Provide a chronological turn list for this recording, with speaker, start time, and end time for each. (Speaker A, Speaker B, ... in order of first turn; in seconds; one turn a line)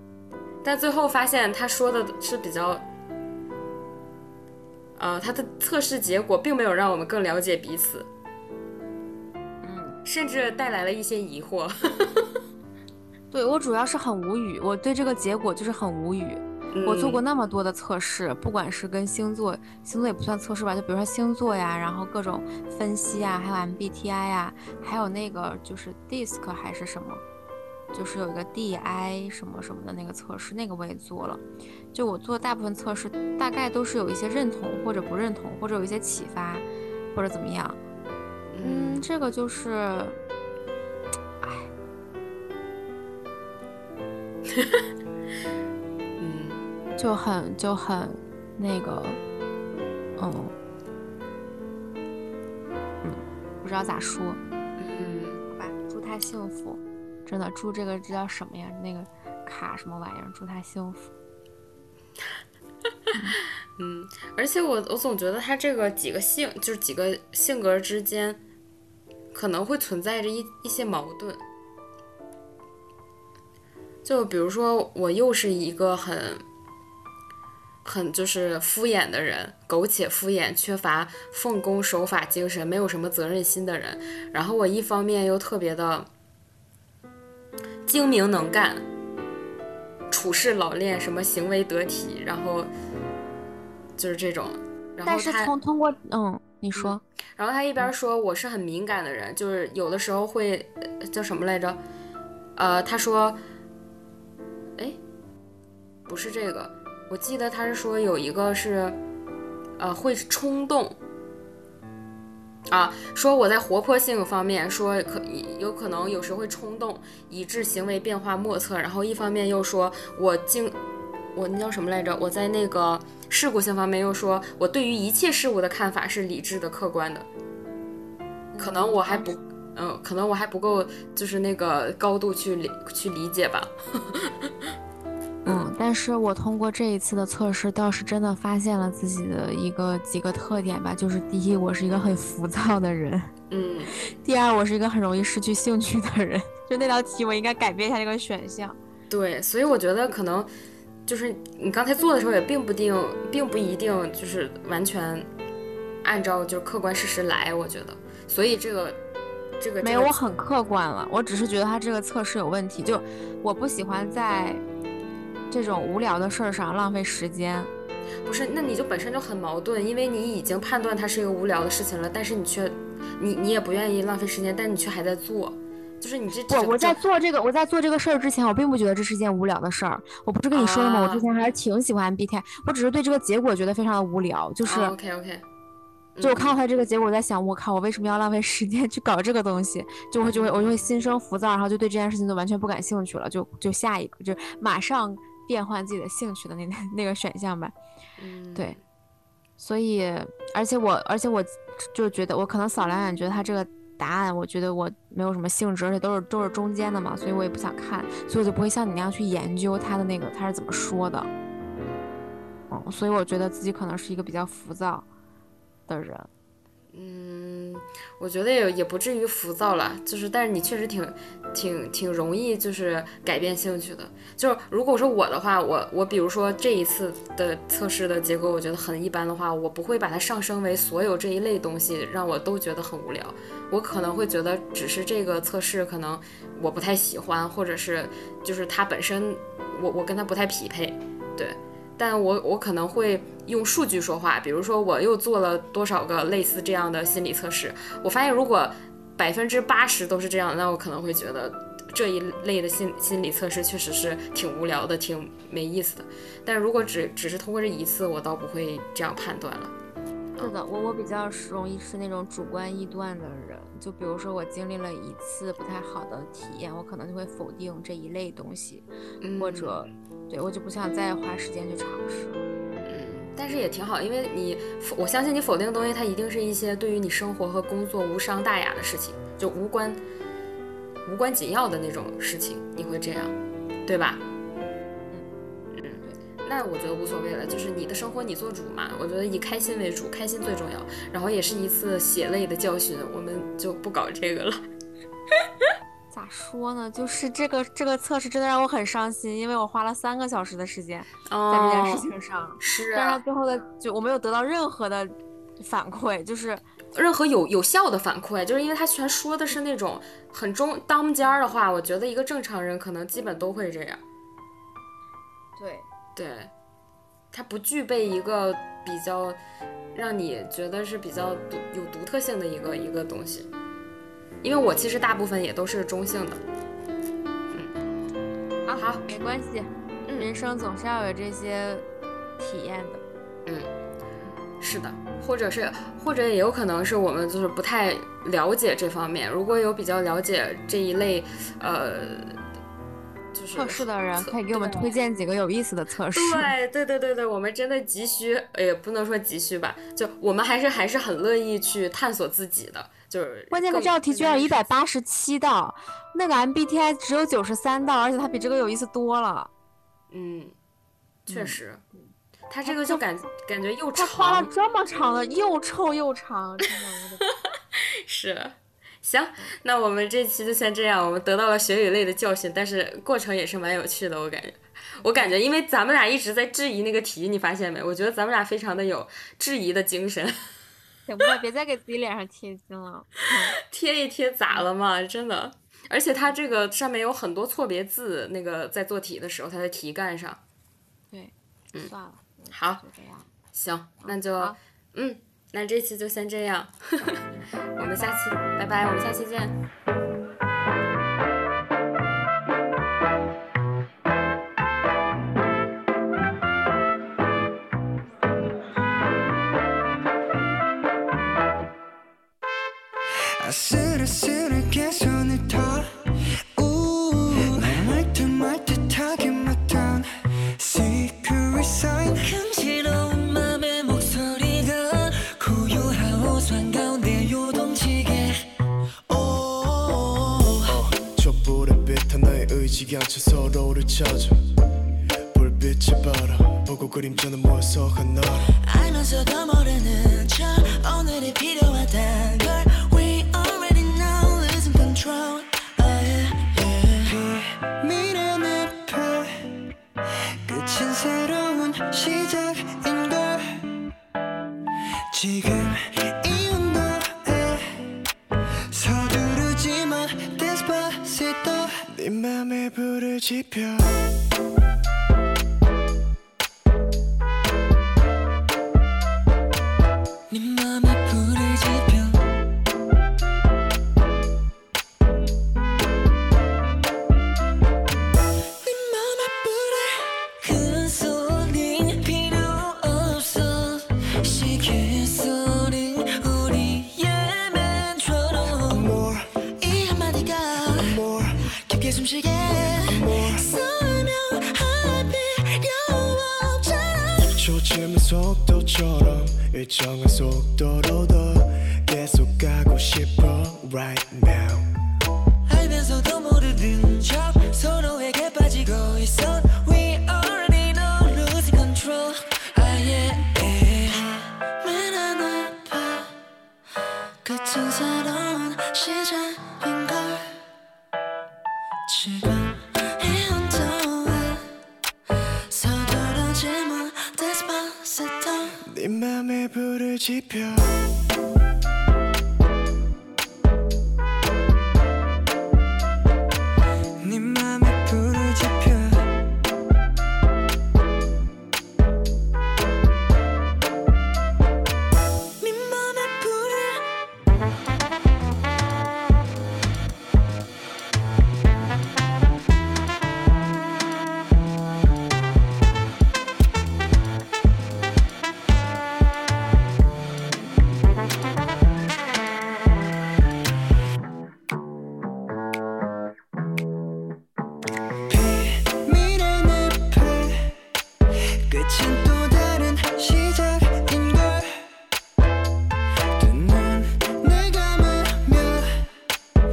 Speaker A: 0.6-2.9
Speaker A: 5.0-8.1
Speaker B: 9.6-10.0
Speaker A: 10.1-12.3
Speaker B: 13.3-27.2
Speaker A: 16.7-17.2
Speaker B: 27.9-37.8
Speaker A: 38.5-39.1
Speaker B: 38.6-40.2
Speaker B: 41.4-41.7
Speaker A: 44.5-44.9
Speaker A: 46.2-46.6
Speaker B: 47.0-49.2
Speaker B: 50.2-50.5
Speaker B: 53.0-54.4
Speaker A: 54.8-55.4
Speaker B: 55.5-61.1
Speaker B: 63.1-63.4
Speaker A: 63.8-68.4
Speaker A: 69.3-71.4
Speaker A: 74.0-76.4
Speaker A: 77.8-86.1
Speaker A: 87.9-88.8
Speaker A: 90.1-92.7
Speaker A: 94.0-95.5
Speaker B: 95.1-97.0
Speaker A: 96.8-101.8
Speaker A: 102.6-103.4
Speaker A: 106.1-109.0
Speaker A: 109.8-111.0
Speaker A: 112.7-120.8
Speaker A: 121.3-127.3
Speaker B: 128.5-129.3
Speaker A: 128.6-134.5
Speaker B: 135.4-143.3
Speaker A: 143.5-143.9
Speaker B: 144.0-148.8
Speaker A: 149.1-150.5
Speaker A: 151.1-155.3
Speaker A: 156.0-159.0
Speaker A: 159.6-160.1
Speaker B: 159.8-164.6
Speaker B: 165.5-167.7
Speaker A: 168.3-177.0
Speaker B: 176.5-184.9
Speaker A: 180.5-181.2
Speaker A: 184.6-185.4
Speaker A: 186.2-186.6
Speaker B: 186.2-197.7
Speaker A: 190.3-190.7
Speaker A: 198.2-198.8
Speaker B: 199.6-211.3
Speaker B: 212.7-215.1
Speaker B: 215.9-216.3
Speaker A: 216.9-259.8
Speaker B: 260.4-268.9
Speaker A: 269.2-269.8
Speaker B: 269.4-272.4
Speaker A: 272.9-280.0
Speaker A: 281.1-283.4
Speaker A: 283.9-284.2
Speaker A: 285.8-294.6
Speaker A: 295.4-295.6
Speaker B: 296.1-306.6
Speaker A: 301.3-302.1
Speaker A: 302.6-303.2
Speaker A: 306.9-314.0
Speaker B: 315.6-315.9
Speaker A: 316.1-316.5
Speaker A: 317.3-319.4
Speaker A: 319.9-323.5
Speaker A: 324.4-326.4
Speaker B: 328.7-331.9
Speaker A: 328.8-329.1
Speaker B: 332.4-333.0
Speaker A: 333.5-333.7
Speaker A: 334.6-342.4
Speaker A: 343.3-345.0
Speaker B: 343.5-346.5
Speaker A: 346.1-354.7
Speaker B: 353.5-359.5
Speaker A: 360.1-360.6
Speaker A: 361.3-361.8
Speaker B: 361.3-362.0
Speaker A: 362.5-364.5
Speaker B: 362.6-363.0
Speaker B: 363.9-367.3
Speaker A: 367.4-380.3
Speaker B: 381.1-383.6
Speaker A: 383.6-390.4
Speaker B: 391.1-393.3
Speaker A: 392.5-392.8
Speaker A: 393.5-397.2
Speaker B: 394.0-394.6
Speaker A: 397.8-399.6
Speaker C: 413.4-415.9
Speaker C: 416.6-422.3
Speaker D: 422.2-428.4
Speaker D: 429.1-430.8
Speaker E: 430.7-434.4
Speaker E: 435.3-438.5
Speaker D: 438.6-447.1
Speaker C: 447.0-449.6
Speaker C: 450.4-453.6
Speaker C: 455.1-457.8
Speaker C: 458.7-461.8
Speaker E: 461.9-464.0
Speaker D: 470.3-472.2
Speaker D: 478.6-488.9
Speaker E: 488.7-489.2
Speaker D: 489.6-491.0
Speaker E: 490.8-491.3
Speaker D: 491.5-497.5
Speaker E: 492.8-493.4
Speaker E: 497.4-504.7
Speaker D: 505.5-516.1
Speaker D: 517.2-520.3
Speaker D: 521.9-524.5
Speaker D: 525.5-528.6
Speaker E: 528.7-530.8
Speaker C: 537.0-539.1
Speaker D: 545.4-546.8
Speaker C: 568.1-570.5
Speaker C: 571.5-574.7
Speaker C: 576.1-578.8